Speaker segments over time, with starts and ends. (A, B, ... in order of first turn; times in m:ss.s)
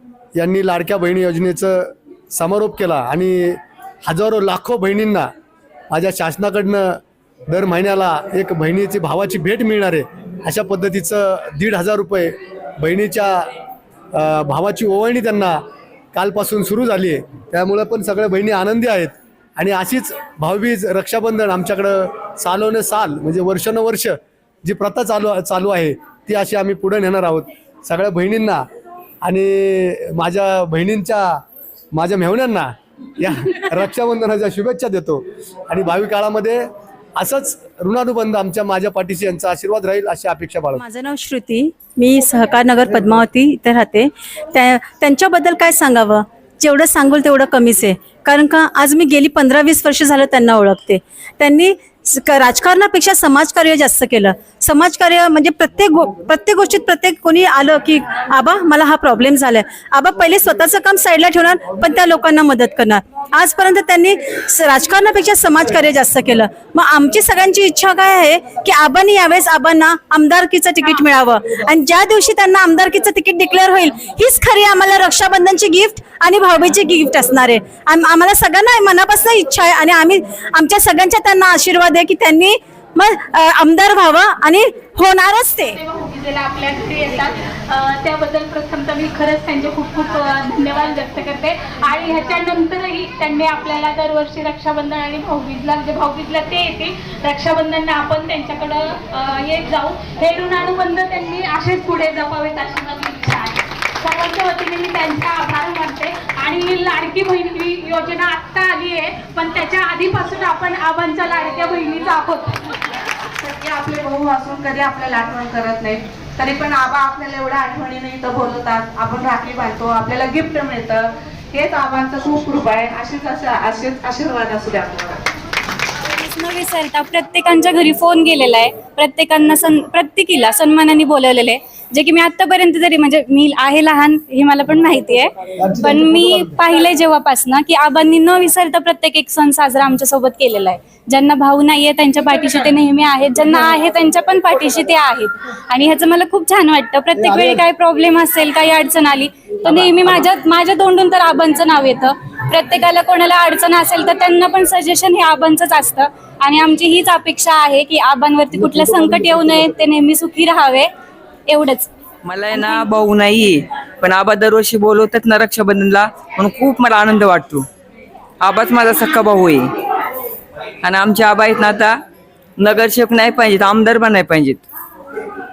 0:00.4-0:05.3 A
0:05.9-0:13.5 A
0:14.1-0:15.6 A
0:16.1-0:28.7 A
0:29.2-0:31.4 A
0:31.9-0:40.8 A
0:40.8-1:25.8 B
1:25.7-1:52.6 C
1:53.4-2:05.2 D
2:06.1-2:40.9 E
2:41.5-2:41.9 E
2:42.2-2:47.7 F
2:42.5-2:42.8 E
2:48.4-2:49.8 F
2:50.8-2:52.0 F
2:52.6-2:54.6 F